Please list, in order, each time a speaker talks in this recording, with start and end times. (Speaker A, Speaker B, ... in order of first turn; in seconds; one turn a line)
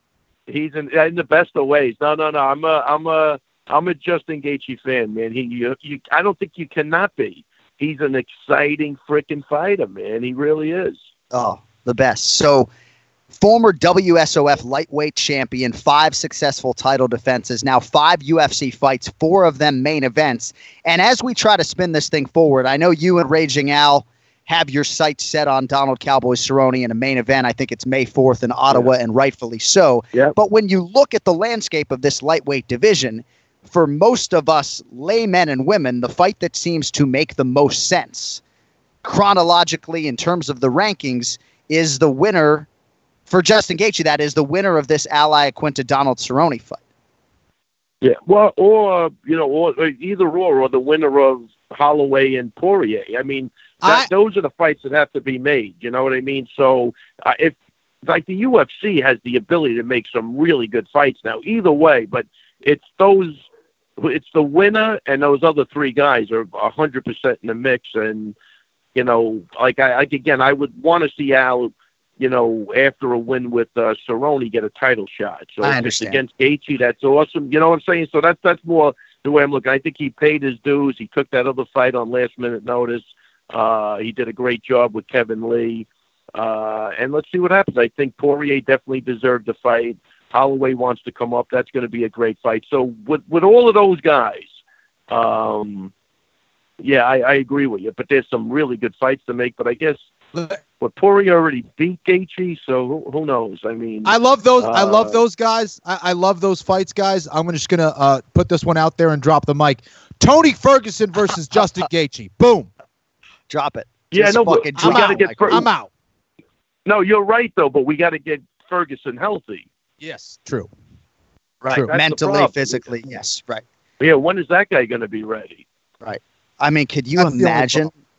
Speaker A: 0.5-11.0
Speaker B: 11.3-12.7
Speaker B: 13.3-38.4
Speaker B: 39.0-42.7
Speaker B: 43.3-46.8
Speaker A: 48.0-63.3
Speaker C: 53.8-54.1
Speaker A: 64.0-68.3
Speaker A: 68.9-94.5
Speaker B: 75.6-76.2
Speaker A: 95.1-95.9
Speaker A: 96.8-100.0
Speaker A: 100.8-105.2
Speaker C: 104.0-112.7
Speaker B: 113.5-115.6
Speaker A: 114.1-115.7
Speaker C: 114.8-115.9
Speaker A: 116.8-119.7
Speaker C: 120.0-120.7
Speaker B: 121.6-123.6
Speaker A: 121.9-122.9
Speaker A: 124.0-125.6
Speaker B: 126.0-127.9
Speaker C: 127.2-127.9